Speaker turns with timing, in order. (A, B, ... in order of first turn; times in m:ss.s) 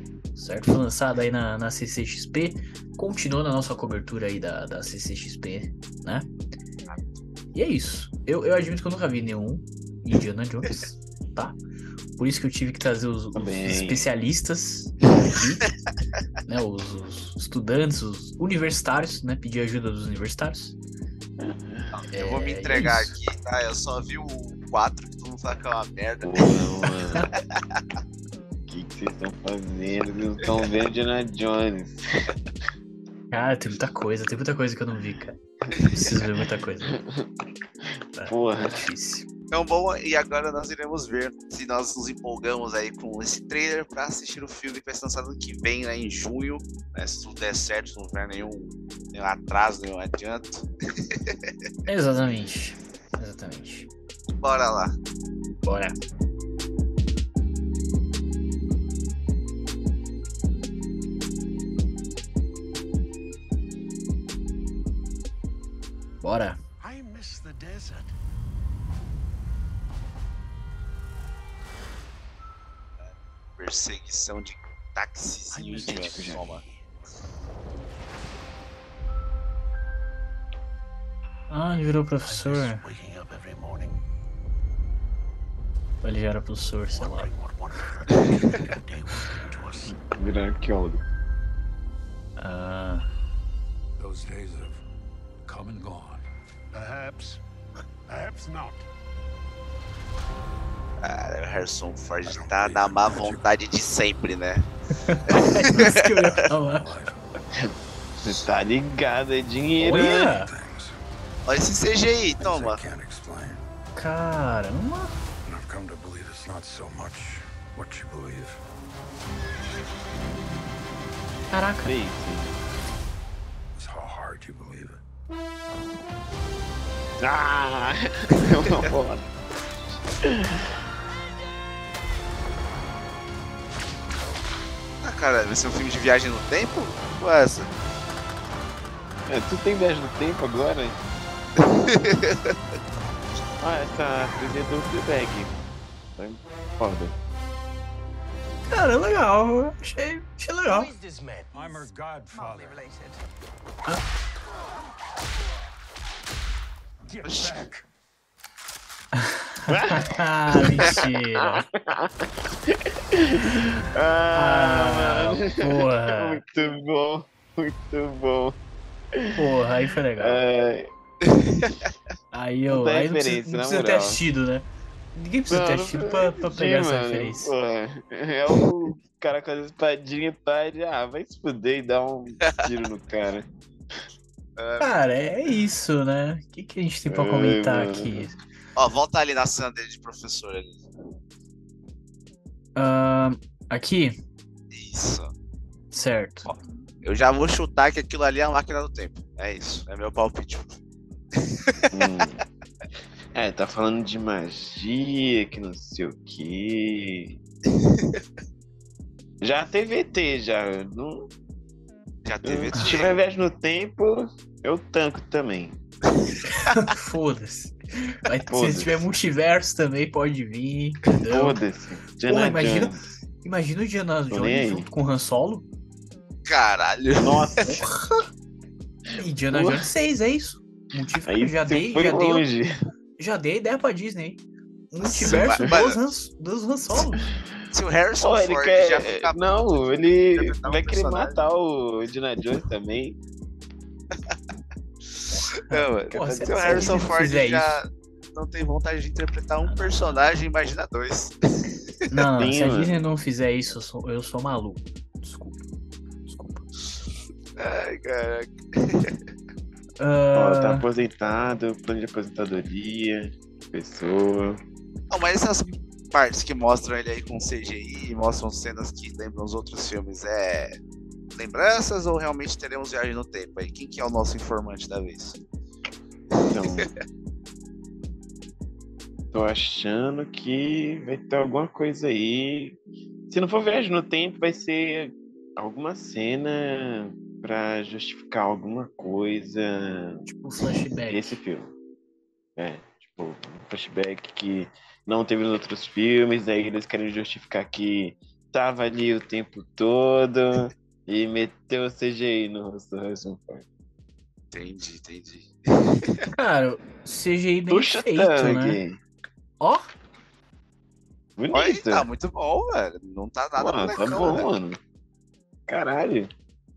0:00.3-0:06.3 A
0:06.8-0:07.2 B
0:07.5-0:11.6 A
0:12.2-0:15.7 A
0:13.3-0:14.1 C
0:16.4-0:20.8 A
0:21.4-0:21.9 C
0:21.9-0:26.6 B
0:22.1-0:23.1 A
0:26.2-0:27.3 C
0:28.7-0:32.0 C
0:33.3-0:35.4 A
0:35.9-0:37.0 A
0:38.2-0:39.3 A
0:38.3-0:38.8 C
0:39.5-0:50.6 B
0:51.9-0:53.9 A
0:54.4-0:54.9 B
0:55.6-0:55.9 A
1:06.2-1:06.6 A
1:06.8-1:08.1 D
1:07.0-1:08.0 E
1:13.0-1:16.6 B
1:15.5-1:16.4 D
1:15.8-1:16.5 C
1:21.5-1:22.8 A
1:22.2-1:24.0 E
1:22.8-1:23.9 D
1:26.0-1:27.3 A
1:26.9-1:29.9 E
1:28.1-1:29.7 D
1:29.9-1:31.0 C
1:32.4-1:33.0 A
1:34.0-1:34.8 E
1:35.4-1:36.2 E
1:36.7-1:37.3 D
1:36.8-1:37.4 E
1:38.1-1:38.8 E
1:38.1-1:38.8 D
1:41.0-1:44.6 B
1:42.3-1:43.5 E
1:45.0-1:46.9 A
1:45.3-1:46.0 B
1:46.6-1:47.1 E
1:48.2-1:50.3 C
1:49.8-1:50.5 A
1:50.2-1:51.0 E
1:51.4-1:52.8 B
1:52.4-1:53.6 E
1:53.9-1:55.1 A
1:55.4-1:58.6 E
2:01.5-2:01.9 A
2:01.8-2:02.6 C
2:03.7-2:05.0 E
2:07.2-2:09.3 C
2:10.3-2:10.6 C
2:15.0-2:17.7 B
2:19.3-2:21.0 C
2:21.6-2:22.6 B
2:23.6-2:25.5 C
2:26.2-2:27.1 C
2:28.7-2:30.9 A
2:30.9-2:33.1 D
2:31.5-2:32.9 E
2:37.1-2:37.9 E
2:37.2-2:37.4 D
2:37.2-2:37.5 B
2:39.1-2:41.6 A
2:39.7-2:48.6 C
2:44.3-2:46.4 A
2:49.3-2:50.4 A
2:50.2-2:50.9 C
2:51.3-2:51.9 B
2:52.3-2:57.5 A
2:52.7-2:54.2 C
2:55.5-3:03.4 C
3:04.6-3:04.9 B
3:04.8-3:08.4 A
3:07.1-3:08.2 C
3:08.8-3:10.8 B
3:12.8-3:14.2 A
3:14.7-3:15.3 B
3:15.9-3:16.5 A
3:16.4-3:20.8 B
3:21.9-3:22.4 C
3:23.3-3:27.4 C
3:27.9-3:28.2 B
3:29.4-3:31.3 C
3:32.2-3:33.2 B
3:32.4-3:35.8 C
3:36.6-3:41.6 A
3:38.5-3:39.0 C
3:41.3-3:43.0 C
3:42.3-3:45.6 A
3:44.3-3:44.9 C
3:46.4-3:47.7 B
3:47.2-3:47.8 C
3:47.6-3:48.2 A
3:49.2-3:52.4 A
3:49.5-3:49.9 C
3:51.2-3:52.7 C
3:53.2-3:57.3 A
3:55.0-3:56.0 B
3:55.2-3:55.8 C
3:57.7-4:01.4 B
3:58.2-4:03.2 C
4:05.1-4:11.6 B
4:05.3-4:07.8 A
4:06.1-4:07.1 C
4:09.6-4:10.2 A
4:12.1-4:15.7 A
4:12.4-4:13.0 C
4:16.2-4:16.6 A
4:17.6-4:19.2 B
4:20.0-4:20.8 A
4:20.3-4:24.6 C
4:25.1-4:30.7 B
4:31.3-4:35.4 B
4:36.5-4:36.9 C
4:36.6-4:36.9 B
4:39.3-4:42.8 C
4:43.3-4:50.3 C
4:50.2-4:51.4 A
4:51.1-4:51.7 C
4:52.6-5:03.6 C
5:04.5-5:05.5 B
5:06.3-5:08.8 A
5:07.7-5:09.0 C
5:09.6-5:09.9 A
5:11.4-5:12.1 C
5:11.5-5:14.5 B
5:13.6-5:14.8 C
5:15.7-5:16.3 C